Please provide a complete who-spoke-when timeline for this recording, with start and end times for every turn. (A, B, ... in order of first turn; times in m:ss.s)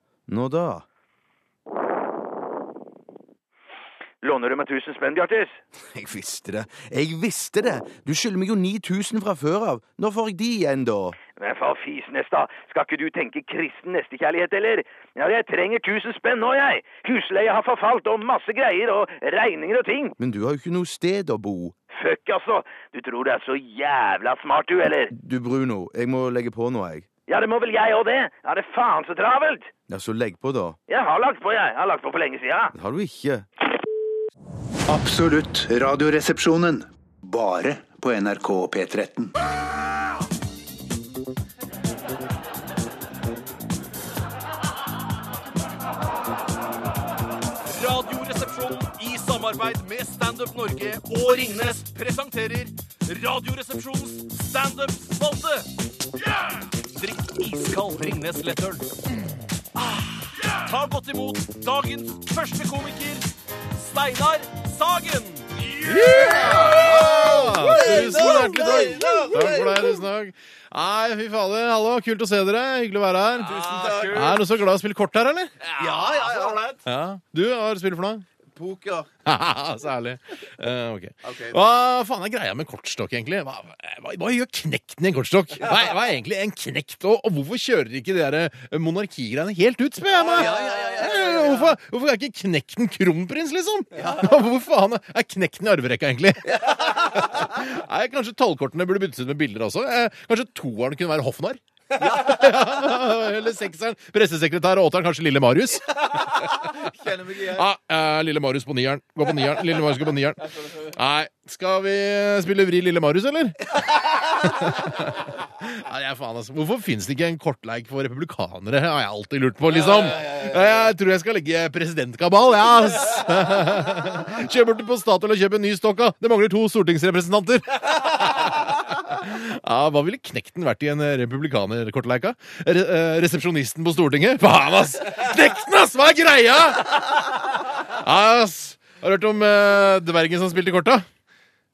0:00.3-0:00.8 A
0:04.2-0:05.6 B
0:05.9-0:11.2 A
0:11.4-0:20.2 B
0:20.2-0:21.8 A
0:21.9-0:25.1 B
0:25.1-0:27.1 A
0:27.3-0:29.7 B
0:29.9-0:30.8 A
0:30.9-0:32.7 B
0:32.7-0:33.4 A
0:34.9-0:39.3 C
0:47.7-0:55.6 D
0:57.0-0:58.9 D
1:00.4-1:03.2 D
1:03.8-1:05.5 D
1:05.8-1:15.5 E
1:06.3-1:09.8 A
1:06.4-1:06.8 D
1:13.5-1:14.3 A
1:13.6-1:14.2 D
1:15.6-1:16.8 A
1:16.8-1:18.2 E
1:18.5-1:19.1 A
1:19.2-1:46.1 E
1:21.2-1:21.6 A
1:30.1-1:31.7 A
1:34.0-1:34.3 A
1:42.0-1:42.4 A
1:46.1-1:47.6 A
1:47.4-1:53.7 E
1:54.4-2:21.0 E